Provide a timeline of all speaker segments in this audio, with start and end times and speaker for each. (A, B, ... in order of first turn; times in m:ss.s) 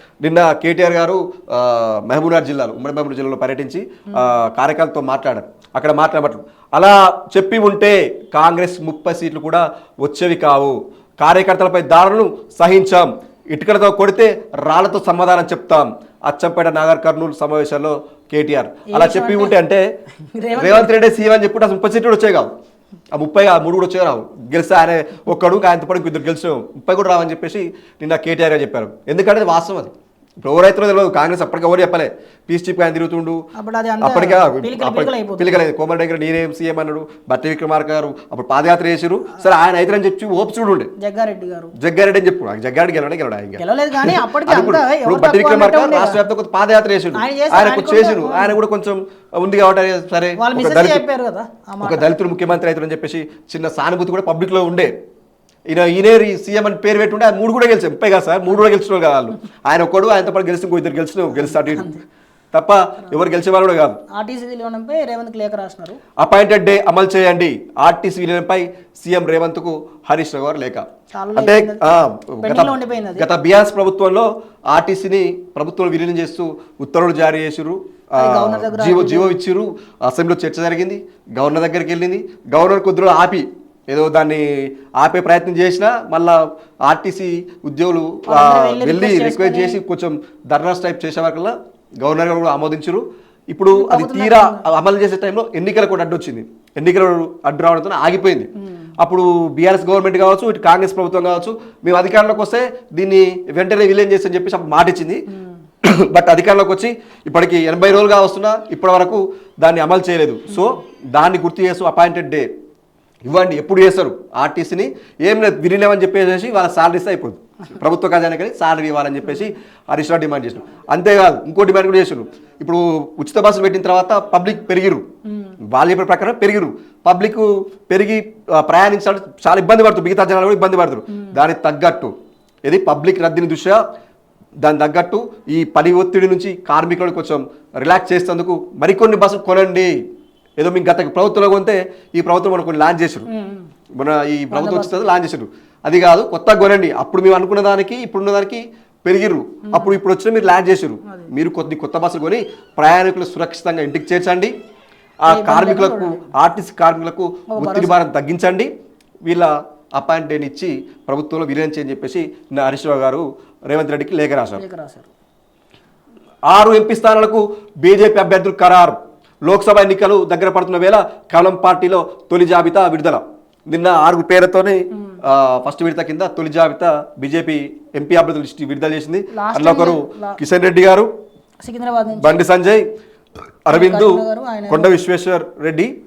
0:00.2-0:19.9 A
0:18.9-0:19.6 B
0:20.3-0:20.9 B
0:20.6-0:22.5 A
0:23.1-0:33.4 A
0:33.5-0:35.6 B
0:34.0-0:40.9 A
0:41.0-0:41.7 B
0:41.8-0:51.0 A
0:43.6-0:46.2 B
0:47.1-0:48.6 B
0:50.4-0:52.1 B
0:51.8-0:54.9 A
0:55.7-1:01.9 A
1:01.5-1:02.0 B
1:02.5-1:04.0 A
1:04.1-1:06.0 B
1:06.2-1:45.2 A
1:11.1-1:13.3 B
1:18.2-1:19.4 B
1:28.3-1:29.8 B
1:33.7-1:34.6 B
1:45.8-1:52.5 A
1:53.2-2:05.0 A
2:05.7-2:12.1 A
2:12.7-2:13.8 A
2:14.6-2:19.9 A
2:20.6-2:23.3 A
2:23.3-2:23.7 B
2:24.0-2:34.5 A
2:24.5-2:25.0 B
2:29.7-2:30.0 B
2:35.2-2:38.7 A
2:35.3-2:36.3 B
2:37.5-2:38.0 B
2:39.2-2:44.6 A
2:44.6-2:45.1 B
2:46.5-3:01.1 A
2:59.3-3:00.4 B
3:01.6-3:02.4 B
3:02.2-3:02.9 A
3:03.7-3:05.9 A
3:03.7-3:05.0 B